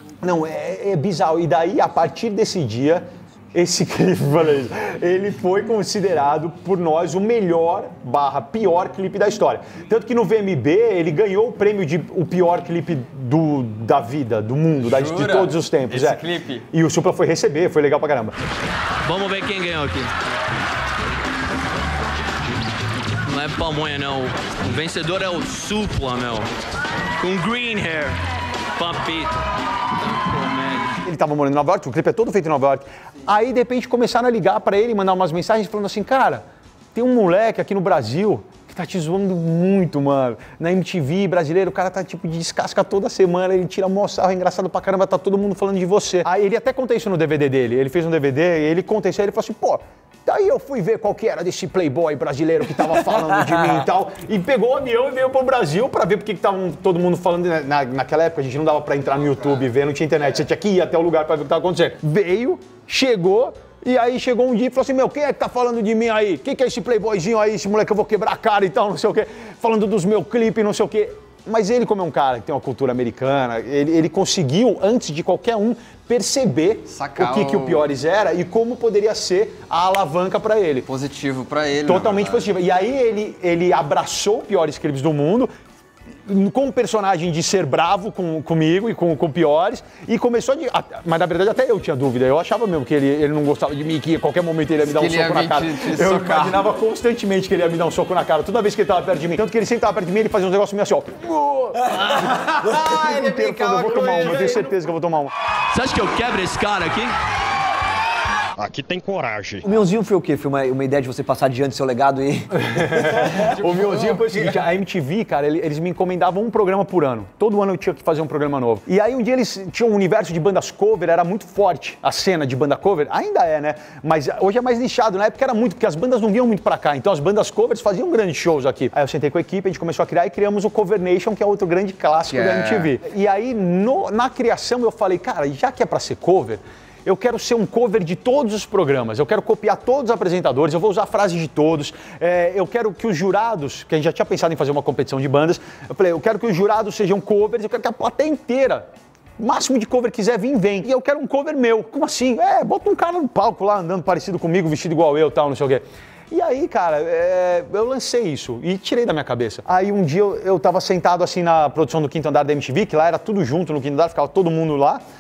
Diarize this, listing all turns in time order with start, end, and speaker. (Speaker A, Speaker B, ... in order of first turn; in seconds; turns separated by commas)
Speaker A: 0.2-18.3, Speaker B: 14.8-16.7, Speaker C: 19.0-20.1, Speaker C: 23.2-26.5, Speaker C: 27.2-28.2, Speaker C: 28.8-31.0, Speaker A: 31.0-36.4, Speaker A: 37.0-80.9, Speaker B: 76.9-77.9, Speaker B: 80.9-82.5, Speaker A: 81.8-85.5, Speaker A: 86.3-101.9, Speaker B: 94.8-96.7, Speaker D: 101.9-103.0, Speaker B: 101.9-104.7, Speaker A: 102.8-105.3, Speaker D: 104.1-104.5, Speaker C: 105.7-107.2, Speaker C: 108.6-109.6, Speaker D: 109.6-113.4, Speaker A: 112.7-165.0, Speaker B: 113.2-114.6, Speaker B: 132.3-132.9